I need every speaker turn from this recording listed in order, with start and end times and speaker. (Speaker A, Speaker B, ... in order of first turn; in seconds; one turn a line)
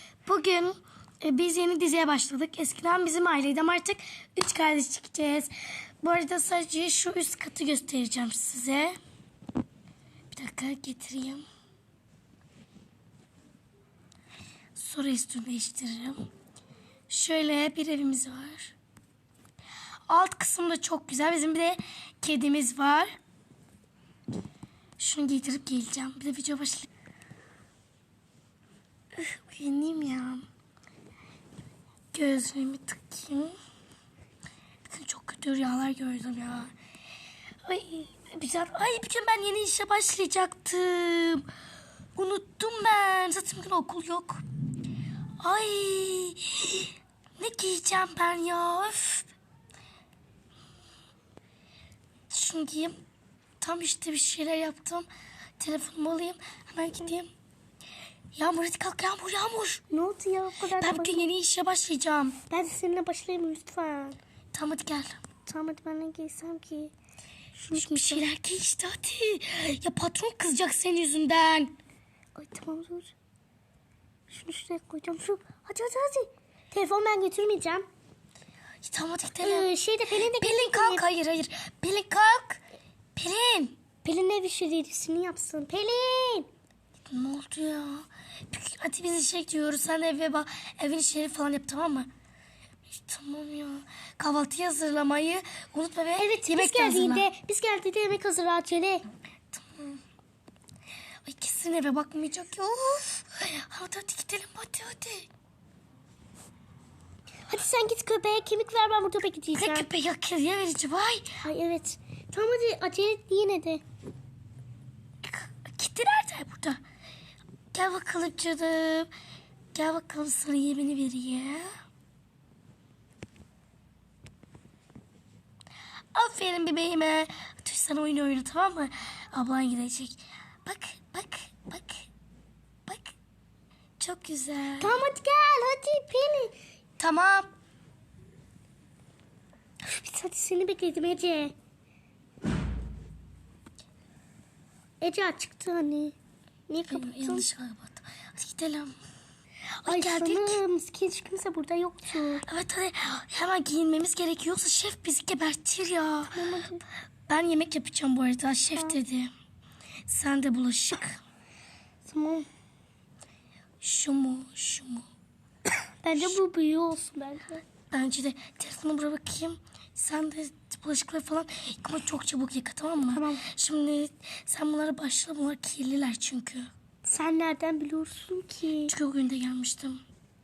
Speaker A: 0.2-8.9
Speaker A: 10.3-11.4
Speaker A: 14.7-16.3
Speaker A: 17.1-18.7
Speaker A: 20.1-23.1
Speaker A: 25.0-26.9
Speaker A: 29.1-30.4
Speaker A: 32.1-33.5
Speaker A: 34.9-36.7
Speaker A: 37.6-41.5
Speaker A: 42.1-44.4
Speaker A: 45.4-49.3
Speaker A: 52.3-52.9
Speaker A: 53.6-55.1
Speaker A: 55.6-57.3
Speaker A: 58.3-59.8
Speaker B: 59.9-61.3
Speaker A: 60.8-62.4
Speaker B: 62.5-64.2
Speaker A: 64.5-65.2
Speaker B: 65.5-66.9
Speaker B: 67.5-68.2
Speaker A: 67.7-71.7
Speaker B: 72.3-73.1
Speaker B: 74.3-77.8
Speaker A: 78.8-79.7
Speaker B: 79.4-81.0
Speaker A: 80.3-82.6
Speaker A: 83.1-83.7
Speaker B: 84.0-86.5
Speaker A: 87.0-92.1
Speaker A: 92.9-97.3
Speaker B: 96.2-99.0
Speaker A: 99.5-100.0
Speaker A: 101.2-105.3
Speaker B: 107.5-109.9
Speaker A: 109.5-111.3
Speaker B: 111.4-113.8
Speaker A: 115.2-116.8
Speaker A: 117.7-119.1
Speaker A: 119.7-121.7
Speaker A: 126.1-132.0
Speaker A: 132.8-133.1
Speaker A: 134.0-135.0
Speaker B: 134.8-136.5
Speaker A: 137.0-137.5
Speaker B: 139.8-141.5
Speaker B: 145.0-146.1
Speaker B: 146.7-147.5
Speaker A: 146.9-148.9
Speaker A: 149.8-150.6
Speaker B: 149.8-152.4
Speaker A: 152.4-156.4
Speaker B: 156.3-156.8
Speaker A: 157.3-159.3
Speaker A: 160.1-161.2
Speaker B: 162.0-162.5
Speaker A: 163.8-165.1
Speaker B: 166.0-167.6
Speaker A: 167.9-176.7
Speaker B: 173.1-173.4
Speaker B: 177.0-178.9
Speaker A: 178.9-180.0